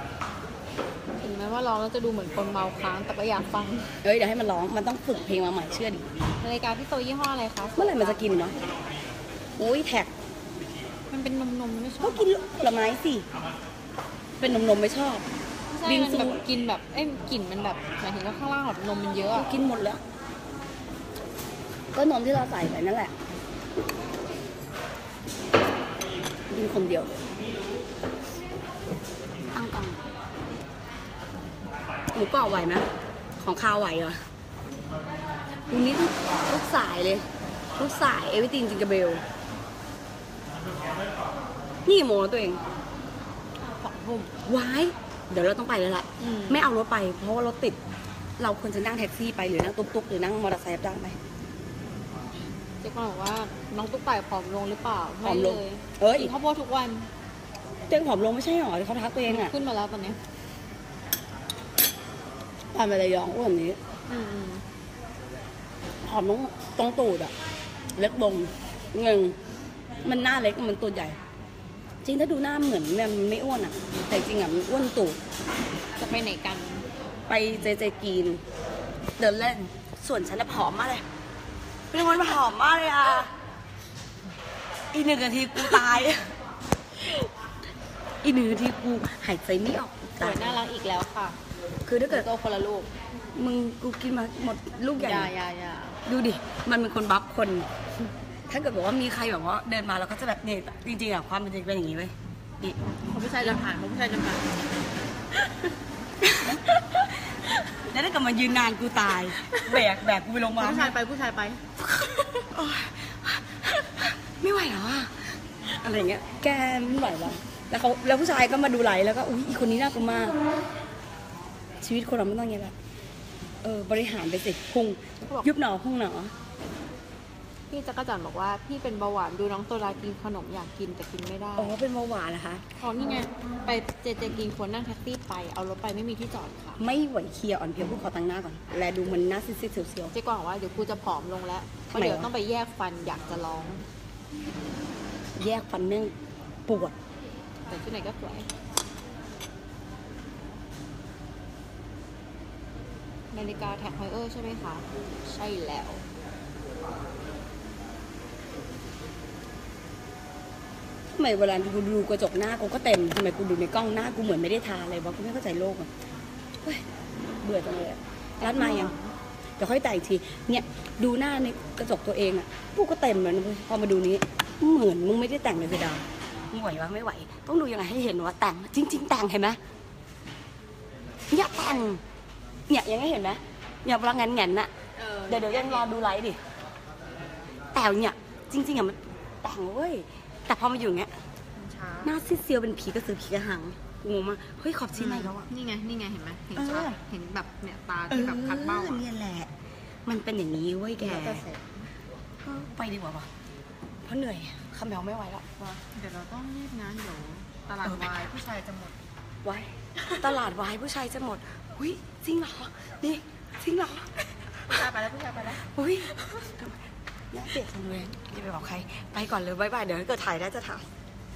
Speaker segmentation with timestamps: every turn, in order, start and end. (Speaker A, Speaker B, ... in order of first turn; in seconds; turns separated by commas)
Speaker A: 1.1-3.9, Speaker B: 4.0-6.1, Speaker A: 6.4-8.6, Speaker B: 7.8-8.6, Speaker B: 9.6-10.1, Speaker A: 11.1-12.3, Speaker B: 12.0-13.3, Speaker B: 14.4-15.3, Speaker A: 15.7-19.5, Speaker B: 15.8-16.4, Speaker B: 19.3-20.0, Speaker B: 21.9-23.1, Speaker B: 26.5-27.1, Speaker B: 29.4-30.0, Speaker B: 32.1-32.9, Speaker B: 33.4-34.2, Speaker B: 35.7-39.2, Speaker B: 41.9-42.6, Speaker A: 43.6-44.3, Speaker B: 44.5-47.8, Speaker A: 46.2-46.7, Speaker B: 48.4-51.2, Speaker A: 52.8-57.1, Speaker B: 55.2-56.3, Speaker B: 57.9-59.5, Speaker A: 59.3-60.2, Speaker B: 62.7-63.8, Speaker A: 64.1-64.6, Speaker B: 66.0-67.3, Speaker B: 68.0-69.4, Speaker B: 70.0-71.2, Speaker B: 72.0-75.2, Speaker A: 76.0-76.9, Speaker B: 77.3-78.4, Speaker B: 79.2-81.0, Speaker B: 81.9-83.3, Speaker B: 84.9-86.3, Speaker B: 88.2-90.6, Speaker A: 90.2-91.4, Speaker B: 91.9-92.3, Speaker A: 92.1-92.9, Speaker B: 93.3-95.3, Speaker A: 95.0-96.0, Speaker B: 96.1-97.7, Speaker B: 98.5-102.8, Speaker A: 103.1-104.5, Speaker B: 106.2-111.0, Speaker A: 110.6-111.6, Speaker B: 111.9-120.4, Speaker B: 121.8-122.8, Speaker B: 123.6-126.3, Speaker A: 127.7-131.8, Speaker B: 131.6-132.7, Speaker A: 132.8-136.8, Speaker B: 136.8-140.1, Speaker A: 140.1-143.8, Speaker B: 141.9-142.3, Speaker B: 145.4-146.1, Speaker B: 146.7-147.0, Speaker A: 147.7-148.5, Speaker A: 153.3-156.0, Speaker B: 161.1-165.9, Speaker B: 167.4-168.9, Speaker A: 168.4-169.1, Speaker B: 169.6-179.6, Speaker B: 181.3-182.0, Speaker B: 182.7-184.7, Speaker A: 184.9-186.0, Speaker B: 185.3-186.4, Speaker B: 187.7-191.1, Speaker A: 191.6-192.2, Speaker B: 192.0-195.5, Speaker A: 194.9-199.1, Speaker B: 196.6-197.0, Speaker B: 198.1-199.5, Speaker B: 200.1-201.4, Speaker A: 201.0-201.8, Speaker B: 202.4-203.3, Speaker B: 204.0-205.5, Speaker A: 205.6-208.9, Speaker B: 209.4-214.3, Speaker A: 214.7-215.7, Speaker B: 215.6-216.8, Speaker B: 217.3-220.8